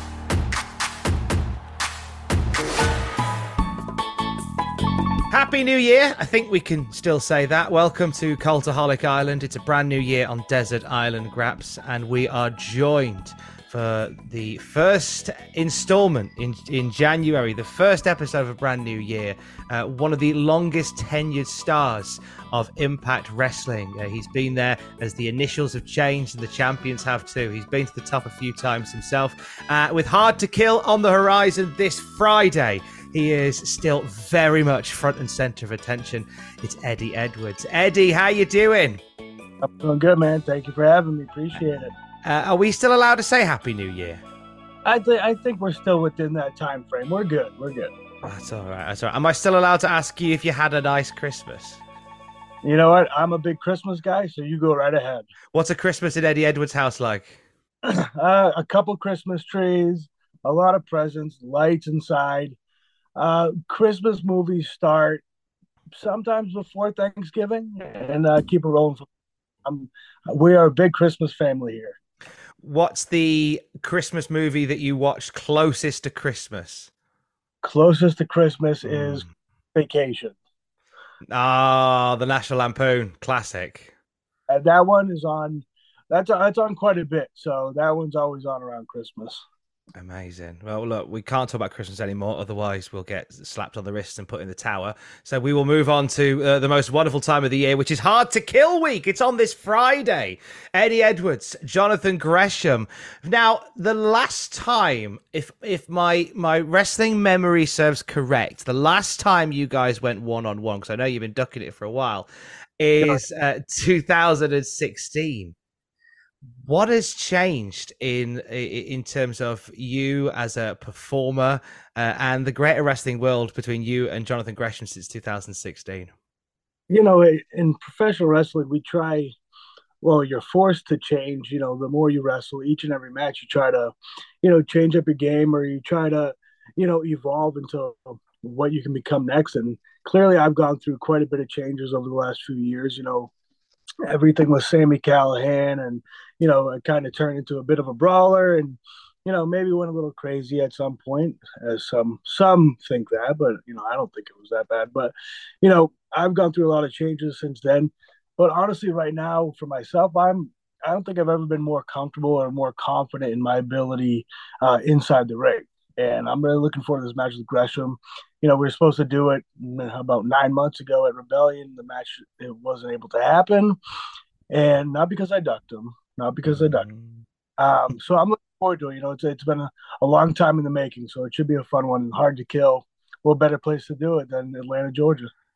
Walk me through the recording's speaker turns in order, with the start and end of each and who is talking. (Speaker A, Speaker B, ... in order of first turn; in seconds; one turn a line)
Speaker A: 5.3-39.0
Speaker B: 39.6-41.9
Speaker A: 42.2-44.2
Speaker B: 44.9-47.9
Speaker A: 48.2-51.8
Speaker B: 52.6-55.3
Speaker A: 55.5-57.4
Speaker B: 57.8-62.6
Speaker B: 63.2-65.2
Speaker B: 65.9-69.1
Speaker B: 69.7-72.0
Speaker A: 72.6-76.9
Speaker B: 77.6-80.3
Speaker A: 78.9-79.3
Speaker A: 81.3-83.9
Speaker B: 84.5-89.4
Speaker A: 90.0-112.3
Speaker A: 112.8-115.5
Speaker A: 116.6-126.1
Speaker B: 126.9-129.4
Speaker B: 130.0-143.3
Speaker B: 144.1-173.8
Speaker B: 174.5-176.9
Speaker A: 176.5-177.2
Speaker B: 177.6-185.3